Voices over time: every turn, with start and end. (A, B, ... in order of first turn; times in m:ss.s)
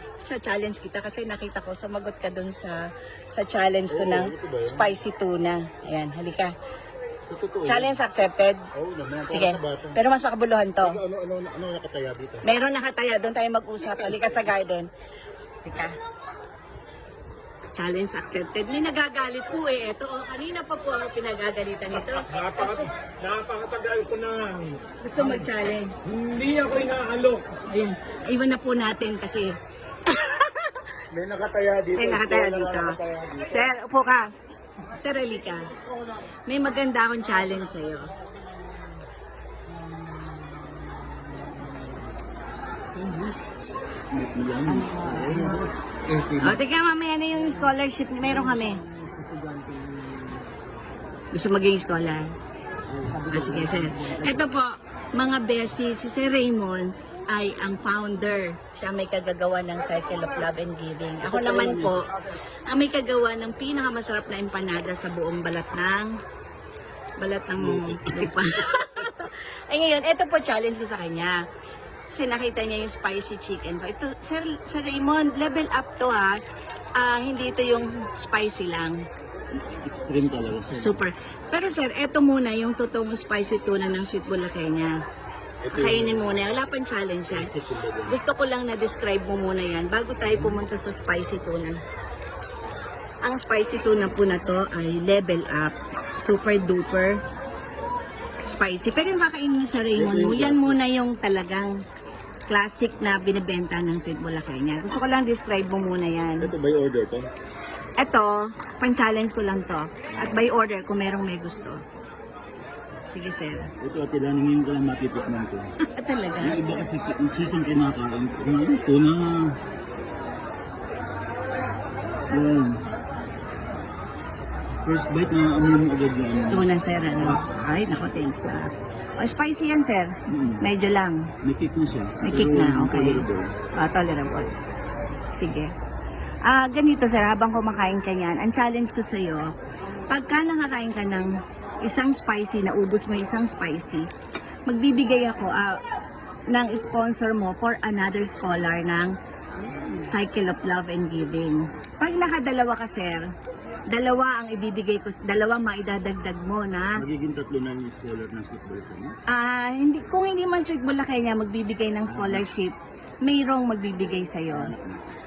0:00.2-0:06.5 A
0:03.9-0:05.0 B
0:07.3-0:08.0 B
0:07.6-0:08.6 A
0:08.7-0:10.0 B
0:09.3-0:11.0 A
0:10.8-0:12.4 B
0:12.4-0:14.9 A
0:15.6-0:16.0 A
0:17.8-0:22.9 A
0:23.0-0:24.8 C
0:25.0-0:26.0 A
0:26.2-0:27.5 C
0:27.6-0:29.5 A
0:30.1-0:30.9 A
0:31.1-0:33.7 B
0:31.9-0:34.3 A
0:34.8-0:35.7 A
0:36.5-0:38.1 A
0:42.9-0:43.5 B
0:44.1-0:46.6 B
0:44.9-0:45.4 A
0:46.4-0:48.8 A
0:48.9-0:50.2 B
0:51.3-0:52.3 A
0:52.9-0:54.5 B
0:53.3-1:02.1 A
1:01.2-1:02.1 B
1:02.7-1:06.1 A
1:07.2-1:11.4 A
1:07.6-1:08.5 B
1:12.1-1:16.4 A
1:17.0-1:19.1 A
1:19.7-1:21.0 B
1:20.2-1:24.9 A
1:25.6-1:26.4 B
1:25.7-1:27.5 A
1:27.3-1:28.2 B
1:28.1-1:31.8 A
1:30.2-1:30.6 B
1:33.2-1:37.2 A
1:38.4-1:41.8 A
1:39.9-1:40.8 B
1:42.5-1:46.5 A
1:46.4-1:47.3 B
1:48.0-1:51.8 A
1:50.1-1:50.4 B
1:53.1-1:53.7 A
1:53.8-1:55.7 B
1:55.8-1:56.6 A
1:56.4-1:59.6 B
2:02.3-2:02.9 B
2:04.8-2:07.4 B
2:06.5-2:11.3 A
2:10.3-2:10.7 B
2:11.4-2:13.6 B
2:12.2-2:14.5 A
2:15.3-2:15.7 A
2:16.4-2:19.5 A
2:20.1-2:24.1 A
2:24.7-2:25.8 A
2:26.5-2:29.1 A
2:30.0-2:33.3 A
2:33.9-2:37.0 A
2:37.0-2:39.2 B
2:39.3-2:44.7 A
2:42.1-2:42.5 B
2:44.5-2:45.0 B